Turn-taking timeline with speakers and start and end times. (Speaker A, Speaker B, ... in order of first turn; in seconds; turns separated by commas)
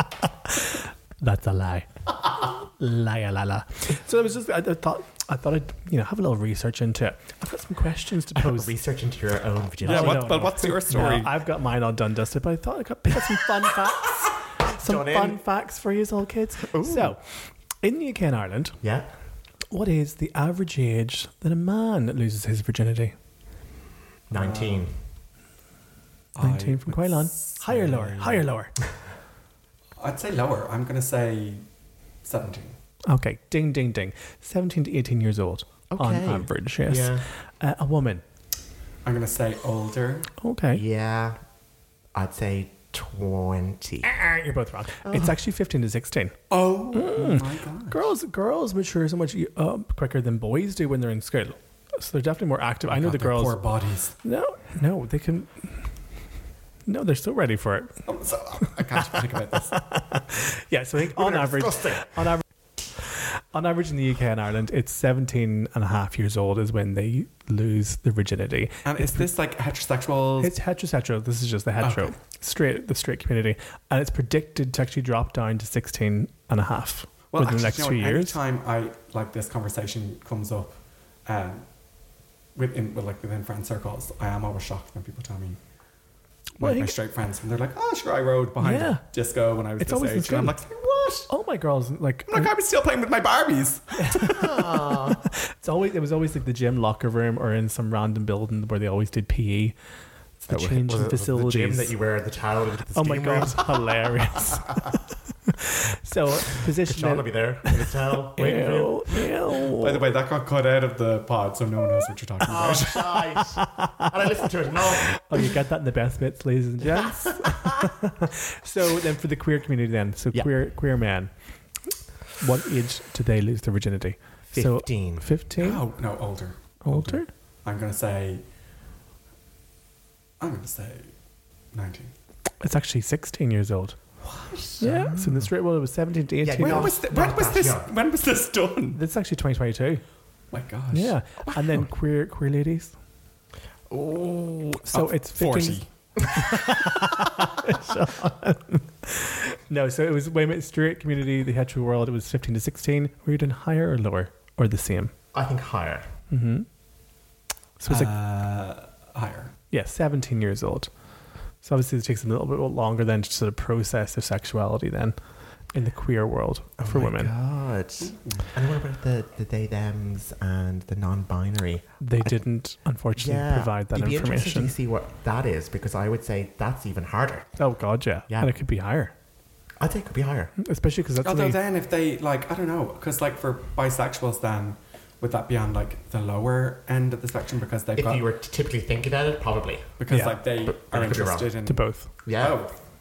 Speaker A: 0.5-8.7, Speaker B: 8.3-10.5, Speaker C: 9.8-11.4, Speaker A: 9.8-17.2, Speaker B: 14.7-15.4, Speaker B: 16.7-17.1, Speaker A: 17.8-18.8, Speaker B: 18.8-19.1, Speaker A: 19.7-23.2, Speaker B: 24.3-24.9, Speaker C: 24.3-24.9, Speaker C: 26.4-28.5, Speaker A: 26.4-28.7, Speaker C: 30.0-31.6, Speaker C: 32.2-32.8, Speaker A: 33.1-38.2, Speaker B: 35.9-37.2, Speaker C: 39.0-40.3, Speaker A: 40.4-40.8, Speaker B: 40.7-41.4, Speaker B: 42.1-44.1, Speaker A: 44.0-46.4, Speaker B: 45.0-45.3, Speaker C: 46.5-48.1, Speaker A: 46.9-53.6, Speaker C: 52.9-54.2, Speaker A: 54.2-55.8, Speaker A: 56.9-58.0, Speaker C: 58.1-59.8, Speaker A: 59.7-62.4, Speaker B: 61.1-62.3, Speaker A: 63.5-69.2, Speaker C: 68.9-70.5, Speaker A: 70.4-78.4, Speaker C: 71.8-72.1, Speaker C: 77.3-80.7, Speaker C: 81.3-81.7, Speaker C: 82.5-85.6, Speaker C: 86.6-91.3, Speaker A: 86.6-86.9, Speaker A: 88.6-89.0, Speaker A: 89.8-90.6, Speaker A: 91.3-92.5, Speaker C: 92.3-94.6, Speaker A: 94.0-99.8, Speaker B: 94.3-95.2, Speaker A: 100.4-101.9, Speaker B: 100.5-104.8, Speaker A: 103.0-105.0, Speaker A: 105.6-110.0, Speaker B: 106.8-109.2, Speaker C: 109.7-113.3, Speaker B: 112.5-115.2, Speaker A: 113.6-114.1, Speaker A: 115.1-121.3, Speaker B: 116.8-118.0, Speaker A: 122.4-125.8, Speaker B: 124.5-125.3, Speaker C: 125.6-128.4, Speaker A: 126.8-127.3, Speaker C: 130.4-131.1, Speaker C: 131.7-132.1, Speaker A: 132.6-134.0, Speaker C: 134.2-134.9, Speaker A: 134.8-136.9, Speaker B: 134.9-135.3, Speaker B: 136.4-137.9, Speaker C: 136.6-139.0, Speaker A: 138.9-140.0, Speaker C: 140.5-141.2, Speaker A: 140.9-142.9, Speaker B: 141.5-141.9, Speaker B: 143.9-144.8, Speaker A: 144.9-155.1, Speaker C: 144.9-145.9, Speaker B: 155.3-156.1, Speaker A: 156.3-156.7, Speaker A: 157.8-158.1, Speaker C: 157.9-159.5, Speaker A: 159.7-160.9, Speaker A: 161.6-165.2, Speaker A: 165.7-167.3, Speaker B: 166.8-172.4, Speaker C: 168.0-168.5, Speaker A: 172.0-174.7, Speaker B: 173.2-177.6, Speaker A: 177.6-179.1, Speaker B: 179.8-180.5, Speaker A: 180.6-181.6, Speaker C: 181.2-188.2, Speaker B: 188.0-189.9, Speaker C: 190.0-192.7, Speaker A: 190.1-190.4, Speaker B: 190.7-191.5, Speaker A: 191.7-192.1, Speaker B: 192.3-192.6